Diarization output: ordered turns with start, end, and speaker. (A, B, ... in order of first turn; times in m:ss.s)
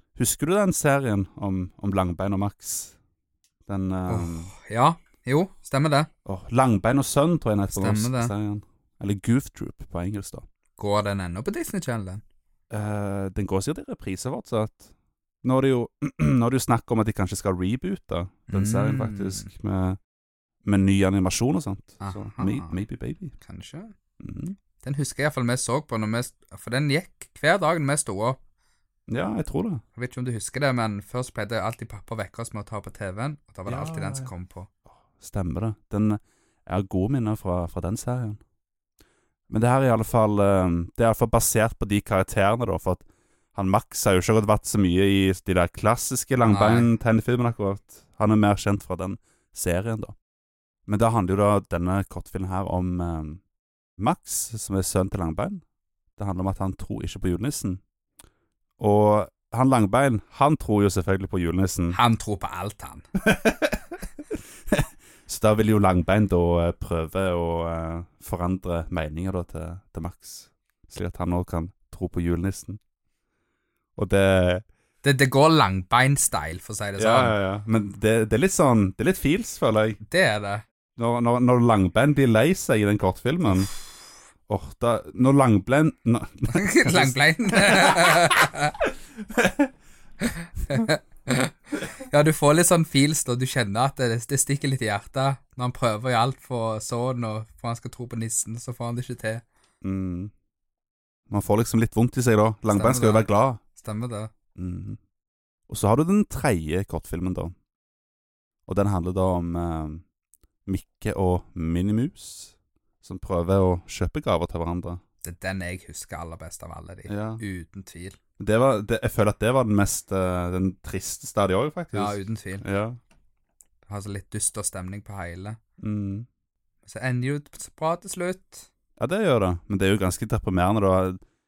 0:00.2-0:02.9 A
0:03.7-0:04.5 A
0:04.1-0:06.1 B
0:06.2-0:10.4 A
0:07.7-0:08.3 B
0:10.8-0:12.2 B
0:12.7-0:14.9 A
0:15.4-0:20.0 A
0:18.5-0:19.5 B
0:20.6-0:23.3 A
0:22.0-0:22.8 B
0:23.4-0:23.9 B
0:24.2-0:24.6 A
0:24.8-0:28.4 B
0:29.1-0:29.8 A
0:29.9-0:34.7 B
0:33.6-0:34.3 A
0:35.0-0:38.4 A
0:39.5-0:50.1 A
0:46.5-0:46.9 B
0:50.9-0:53.4 A
0:54.0-0:55.6 A
0:56.2-0:57.8 A
0:58.8-1:02.0 A
1:01.9-1:03.1 B
1:03.2-1:04.0 A
1:04.7-1:12.8 A
1:14.0-1:14.6 A
1:15.0-1:17.4 B
1:17.0-1:20.0 A
1:20.0-1:20.6 B
1:21.0-1:23.7 A
1:24.5-1:28.3 A
1:26.5-1:28.7 B
1:29.3-1:29.7 A
1:30.2-1:39.4 B
1:39.8-1:40.3 A
1:41.3-1:43.6 A
1:42.7-1:44.3 B
1:44.6-1:45.0 A
1:45.7-1:47.5 A
1:48.7-1:50.0 A
1:50.6-1:55.0 A
1:55.2-1:58.2 B
1:57.1-1:57.4 A
1:58.4-2:03.0 A
2:01.9-2:02.6 B
2:03.9-2:05.6 B
2:05.8-2:06.2 A
2:06.8-2:08.7 B
2:09.0-2:11.2 A